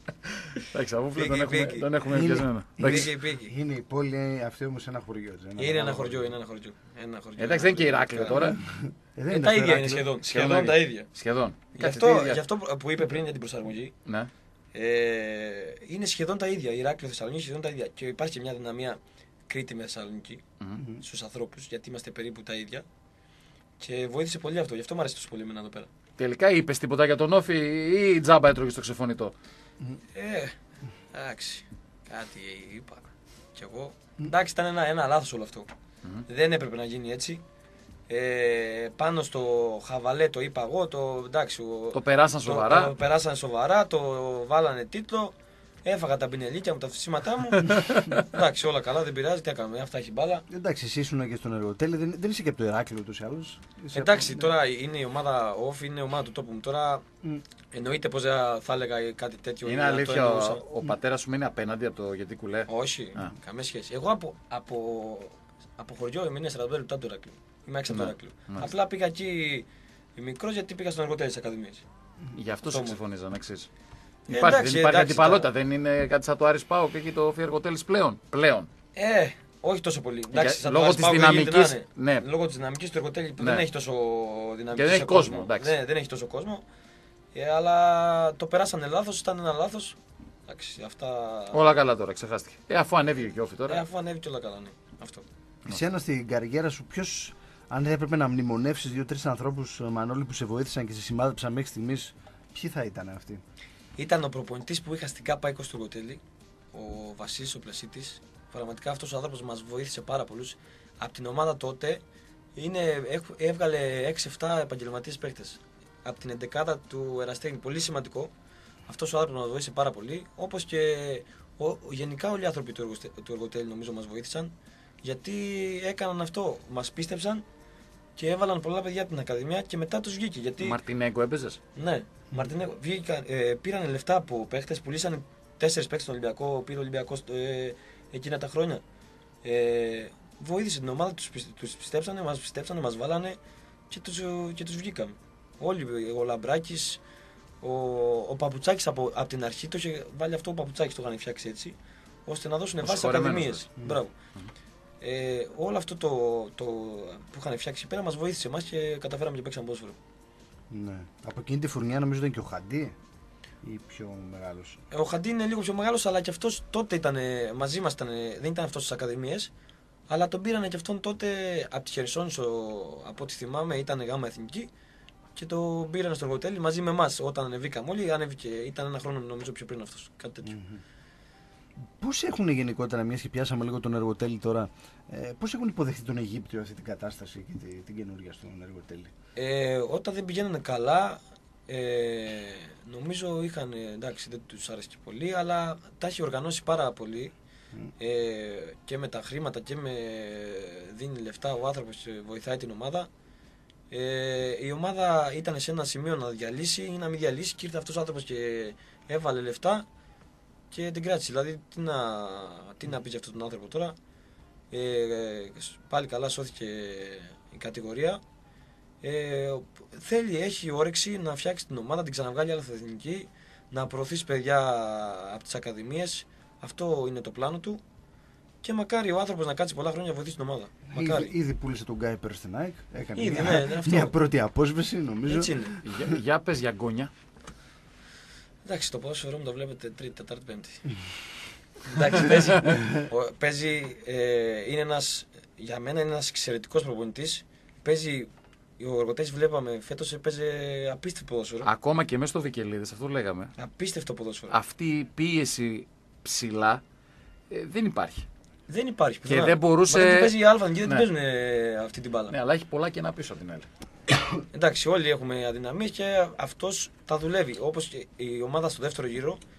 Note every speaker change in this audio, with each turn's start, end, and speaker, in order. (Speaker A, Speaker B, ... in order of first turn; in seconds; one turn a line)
Speaker A: 0.4-3.1
Speaker B: 1.2-2.0
Speaker C: 2.1-6.3
Speaker B: 2.8-3.5
Speaker B: 5.6-8.4
Speaker A: 7.4-8.6
Speaker C: 8.3-10.1
Speaker B: 9.3-11.1
Speaker A: 10.2-12.4
Speaker B: 11.7-13.9
Speaker B: 14.7-20.4
Speaker B: 21.0-22.9
Speaker B: 23.8-25.9
Speaker A: 26.2-29.3
Speaker B: 30.1-30.6
Speaker B: 31.1-35.7
Speaker B: 36.3-37.4
Speaker B: 38.1-50.5
Speaker A: 41.9-42.9
Speaker A: 47.7-48.2
Speaker C: 50.5-54.5
Speaker B: 53.9-57.0
Speaker B: 57.7-60.6
Speaker A: 59.6-63.3
Speaker B: 62.7-71.8
Speaker A: 67.9-68.7
Speaker A: 72.3-73.7
Speaker B: 72.7-73.0
Speaker A: 74.3-78.7
Speaker B: 74.3-75.5
Speaker B: 79.0-86.7
Speaker A: 80.3-82.3
Speaker A: 83.4-83.7
Speaker A: 84.7-85.8
Speaker B: 87.3-91.6
Speaker A: 91.5-93.8
Speaker B: 93.7-95.2
Speaker C: 95.7-103.4
Speaker B: 104.0-106.2
Speaker B: 106.7-112.0
Speaker B: 112.6-118.3
Speaker B: 118.9-127.5
Speaker B: 128.2-130.8
Speaker A: 130.6-131.6
Speaker B: 131.8-138.8
Speaker B: 139.4-143.4
Speaker B: 143.9-147.0
Speaker B: 147.6-154.1
Speaker A: 152.8-153.7
Speaker B: 155.0-160.0
Speaker C: 160.7-162.9
Speaker C: 163.6-164.8
Speaker B: 164.9-169.5
Speaker B: 170.1-174.7
Speaker B: 175.3-180.6
Speaker C: 180.4-180.8
Speaker C: 181.8-189.1
Speaker B: 189.4-197.3
Speaker B: 198.0-203.1
Speaker B: 203.9-209.9
Speaker B: 210.7-214.0
Speaker B: 214.7-218.2
Speaker B: 219.0-227.8
Speaker B: 228.6-231.3
Speaker C: 230.9-236.2
Speaker B: 233.2-234.2
Speaker B: 235.3-235.8
Speaker A: 235.8-237.1
Speaker B: 238.7-240.8
Speaker B: 241.8-251.7
Speaker C: 242.7-243.1
Speaker A: 251.6-253.5
Speaker B: 253.6-254.6
Speaker A: 254.5-256.8
Speaker A: 257.5-258.3
Speaker B: 258.7-262.3
Speaker A: 259.2-261.1
Speaker A: 262.3-263.7
Speaker B: 264.5-269.4